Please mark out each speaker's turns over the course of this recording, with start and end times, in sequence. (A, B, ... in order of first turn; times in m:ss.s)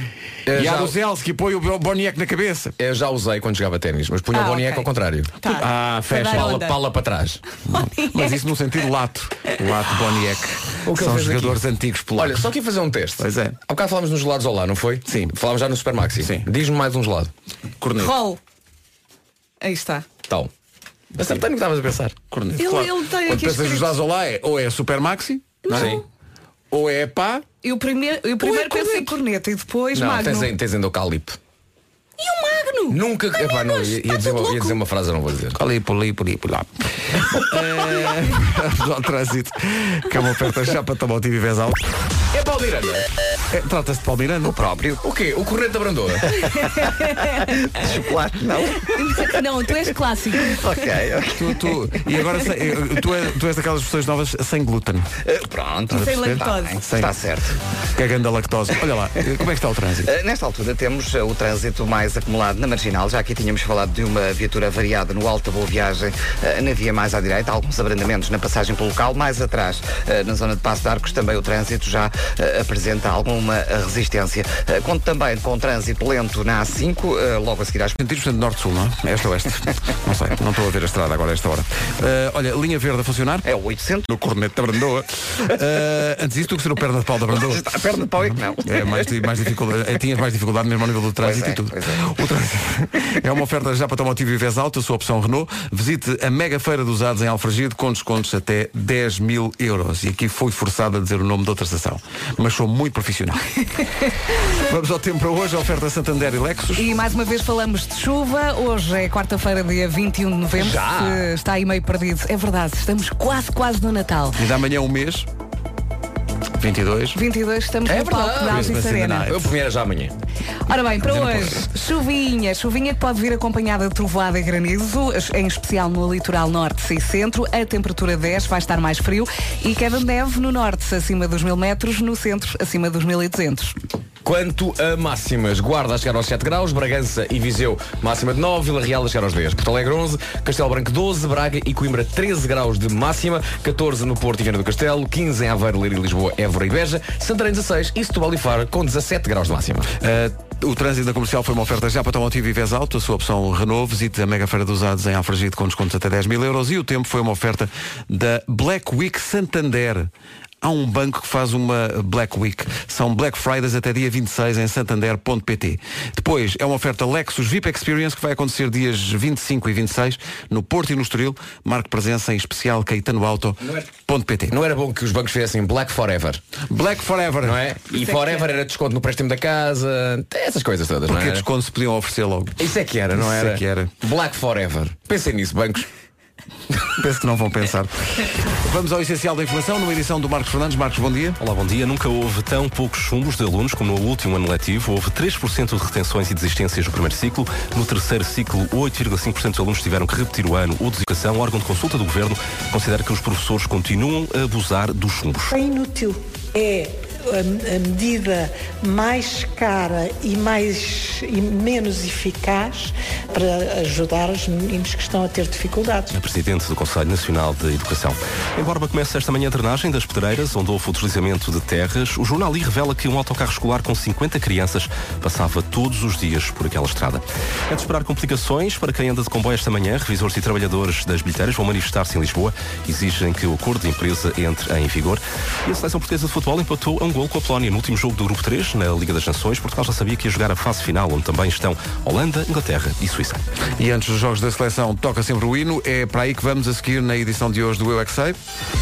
0:00.4-0:01.0 A
0:00.5-0:02.7 B
0:02.8-0:05.3 A
0:04.3-0:04.9 C
0:05.4-0:06.8 C
0:05.5-0:06.6 B
0:06.2-0:07.4 A
0:07.6-0:08.4 C
0:07.7-0:12.4 B
0:10.8-0:11.6 A
0:12.1-0:17.3 A
0:13.2-0:13.6 B
0:15.0-0:15.3 B
0:16.2-0:16.5 B
0:17.8-0:18.1 B
0:18.0-0:18.4 C
0:19.6-0:20.0 C
0:21.2-0:22.2 A
0:22.3-0:26.0 B
0:22.6-0:23.9 C
0:25.6-0:26.0 C
0:25.7-0:26.0 A
0:26.7-0:27.4 B
0:27.6-0:30.5 C
0:29.9-0:31.4 A
0:32.2-0:34.8 C
0:32.9-0:35.6 A
0:35.5-0:41.8 B
0:42.3-0:43.0 A
0:43.5-0:44.6 B
0:44.4-0:45.0 D
0:45.0-0:46.5 A
0:46.3-0:47.5 C
0:47.7-0:48.9 D
0:48.9-0:50.6 C
0:50.4-0:51.7 D
0:51.3-0:55.1 B
0:55.2-0:57.6 D
0:55.9-0:57.1 B
0:55.9-0:56.8 C
0:57.9-1:00.1 B
1:00.0-1:17.9 D
1:17.9-1:23.4 B
1:23.4-1:24.0 D
1:24.1-1:27.6 B
1:27.3-1:29.2 D
1:28.2-1:43.4 B
1:31.2-1:32.0 D
1:44.4-1:46.9 B
1:46.8-1:54.4 C
1:50.5-1:51.3 A
1:54.3-1:55.3 B
1:56.6-1:57.2 B
1:57.1-1:59.4 C
1:57.8-1:58.7 A
1:58.4-1:59.5 B
1:59.2-2:00.1 A
2:00.6-2:13.7 C
2:00.9-2:01.6 B
2:14.2-2:29.9 A
2:30.0-2:40.1 B
2:40.6-2:54.6 B
2:53.6-2:53.9 A
2:54.5-2:56.4 A
2:56.7-2:57.6 B
2:57.4-3:01.4 A
3:01.1-3:02.6 B
3:02.6-3:05.9 A
3:03.1-3:03.9 B
3:06.9-3:11.4 B
3:11.4-3:25.5 E
3:25.5-3:36.1 F
3:36.1-4:03.4 E
4:03.8-4:08.4 B